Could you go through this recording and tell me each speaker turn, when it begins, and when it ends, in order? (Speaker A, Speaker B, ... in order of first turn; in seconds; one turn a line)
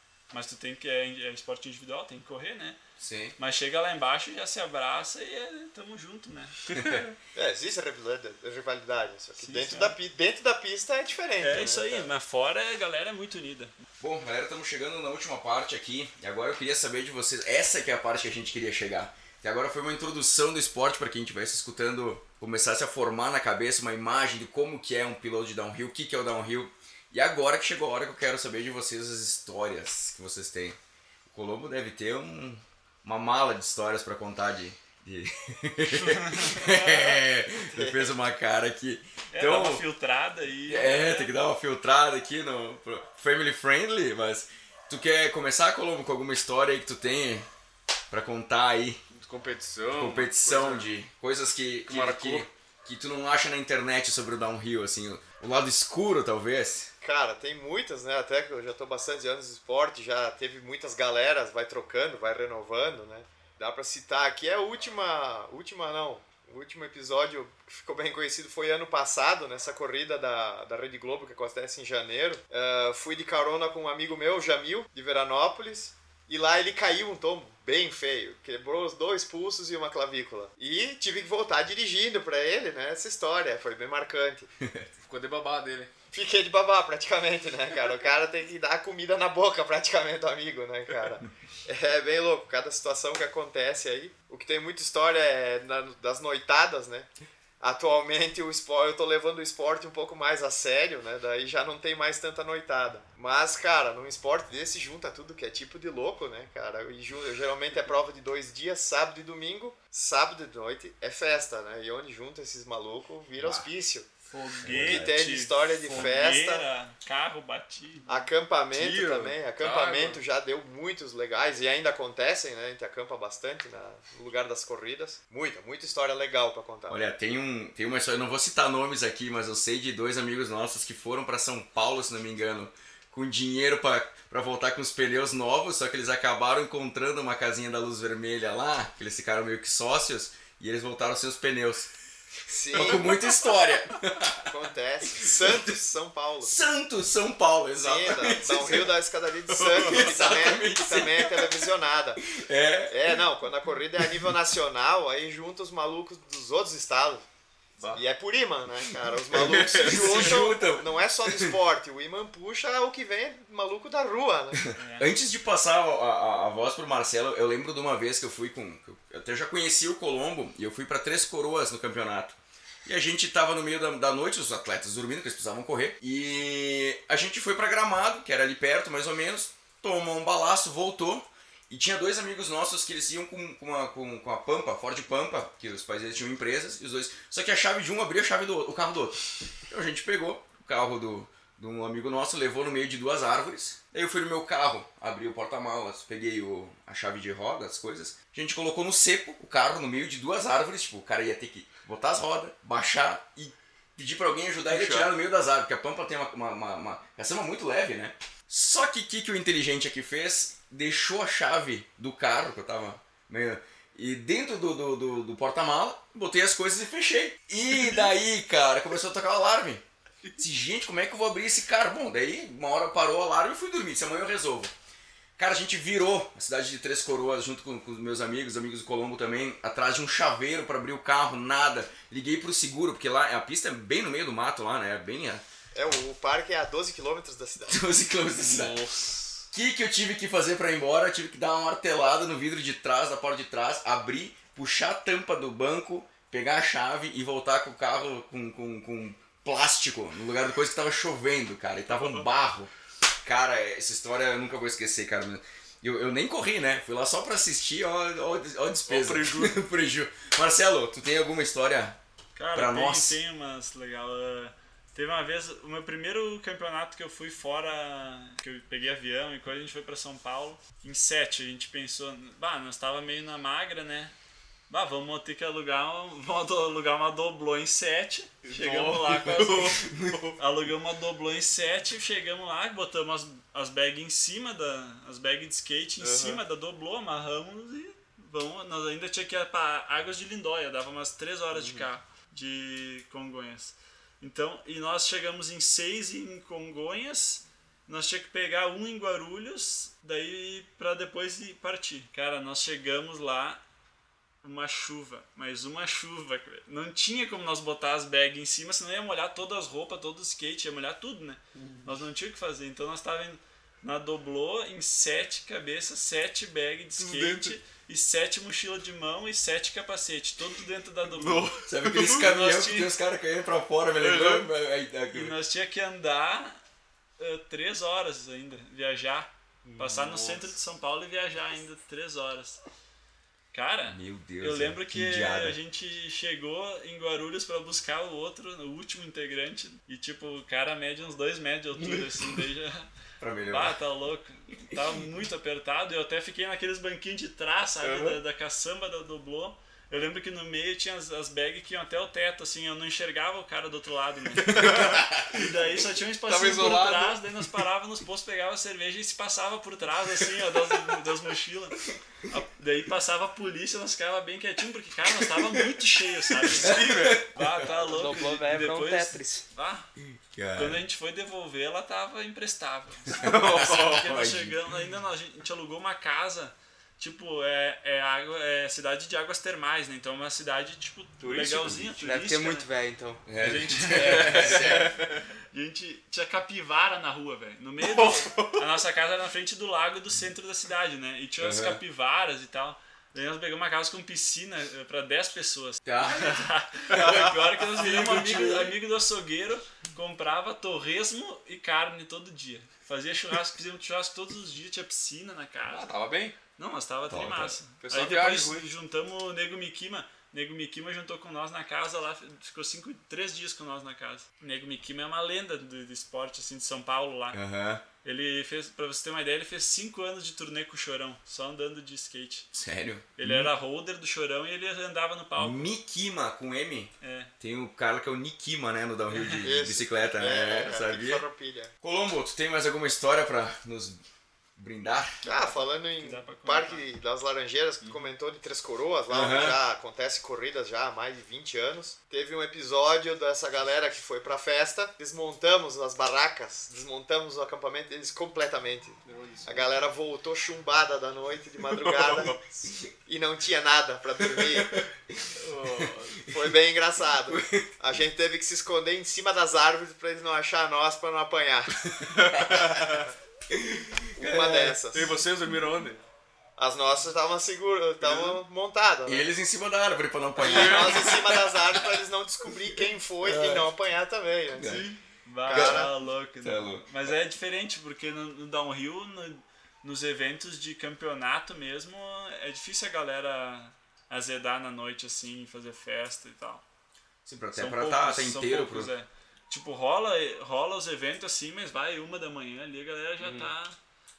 Speaker A: 0.3-2.8
Speaker B: 3.0-3.4
Speaker A: 3.4-6.6
Speaker B: 6.7-7.0
Speaker C: 7.3-12.1
Speaker A: 9.4-9.9
Speaker A: 11.4-13.7
Speaker B: 14.0-39.9
Speaker A: 36.0-37.2
Speaker C: 37.7-38.1
Speaker A: 39.3-41.3
Speaker B: 40.7-47.5
Speaker B: 48.1-49.0
Speaker D: 49.1-50.9
Speaker B: 49.9-56.9
Speaker D: 51.9-52.5
Speaker C: 57.0-84.5
Speaker D: 85.1-85.9
Speaker C: 86.1-97.1
Speaker C: 97.6-114.1
Speaker B: 113.4-113.7
Speaker A: 114.3-118.3
Speaker B: 114.6-115.2
Speaker C: 114.7-116.7
Speaker C: 118.1-127.0
Speaker D: 118.7-120.2
Speaker B: 126.9-141.9
Speaker C: 142.5-143.1
Speaker B: 142.7-144.5
Speaker C: 144.4-146.6
Speaker B: 145.2-145.8
Speaker B: 146.4-148.9
Speaker C: 147.8-152.2
Speaker B: 149.5-151.6
Speaker B: 152.2-153.2
Speaker C: 152.9-157.2
Speaker C: 157.9-164.6
Speaker B: 159.3-161.5
Speaker A: 160.0-160.3
Speaker B: 164.6-219.8
Speaker A: 164.8-165.1
Speaker D: 204.7-205.1
Speaker B: 220.3-224.7
Speaker B: 225.4-235.4
Speaker C: 235.7-237.9
Speaker B: 237.7-238.8
Speaker D: 238.4-239.4
Speaker B: 239.5-252.7
Speaker A: 251.9-252.3
Speaker B: 253.2-262.0
Speaker D: 258.9-259.6
Speaker A: 262.4-274.1
Speaker B: 262.5-263.2
Speaker A: 274.7-303.6
Speaker D: 278.4-280.4
Speaker D: 286.0-286.4
Speaker D: 291.5-291.9
Speaker A: 304.4-322.9
Speaker D: 311.5-311.9
Speaker D: 317.0-317.6
Speaker D: 321.2-322.2
Speaker B: 321.7-325.4
Speaker D: 324.0-324.5
Speaker A: 325.1-326.6
Speaker A: 327.2-332.6
Speaker D: 329.6-330.5
Speaker A: 333.5-342.9
Speaker B: 333.9-335.6
Speaker D: 341.8-342.2
Speaker B: 343.2-343.8
Speaker A: 343.5-369.9
Speaker D: 347.8-348.2
Speaker D: 354.4-355.6
Speaker B: 354.6-355.4
Speaker D: 356.2-357.4
Speaker D: 366.3-367.2
Speaker B: 366.6-367.7
Speaker E: 367.8-369.4
Speaker B: 370.3-370.8
Speaker A: 370.5-382.7
Speaker B: 373.1-374.6
Speaker D: 373.2-374.1
Speaker D: 381.2-381.7
Speaker B: 381.3-381.9
Speaker E: 382.0-383.2
Speaker B: 383.2-384.9
Speaker A: 383.4-385.0
Speaker D: 383.9-385.2
Speaker A: 385.5-405.9
Speaker D: 387.8-388.6
Speaker B: 391.4-391.8
Speaker B: 395.9-397.0
Speaker D: 396.9-398.7
Speaker D: 405.6-406.4
Speaker A: 406.6-417.4
Speaker B: 407.1-407.6
Speaker D: 407.8-408.6
Speaker B: 417.3-417.8
Speaker A: 418.0-422.5
Speaker B: 422.5-423.5
Speaker A: 423.2-425.7
Speaker B: 425.4-431.2
Speaker A: 427.0-427.3
Speaker A: 429.1-429.4
Speaker C: 429.4-431.7
Speaker B: 431.8-434.0
Speaker B: 434.6-435.2
Speaker A: 435.2-436.9
Speaker C: 435.2-452.4
Speaker B: 439.1-439.6
Speaker D: 449.0-449.7
Speaker D: 451.8-452.4
Speaker C: 453.1-454.9
Speaker B: 454.2-455.9
Speaker D: 455.3-456.2
Speaker C: 456.3-461.9
Speaker B: 457.3-457.6
Speaker B: 461.9-464.9
Speaker D: 462.3-463.1
Speaker C: 464.2-465.1
Speaker D: 464.9-466.0
Speaker C: 466.6-469.3
Speaker D: 468.0-468.4
Speaker B: 469.1-472.0
Speaker C: 470.4-474.9
Speaker D: 470.4-471.2
Speaker B: 473.2-473.7
Speaker B: 474.6-474.9
Speaker A: 474.6-486.6
Speaker C: 475.5-475.9
Speaker B: 475.5-475.9
Speaker B: 476.4-477.0
Speaker B: 487.2-488.9
Speaker A: 487.6-493.8
Speaker D: 493.2-493.5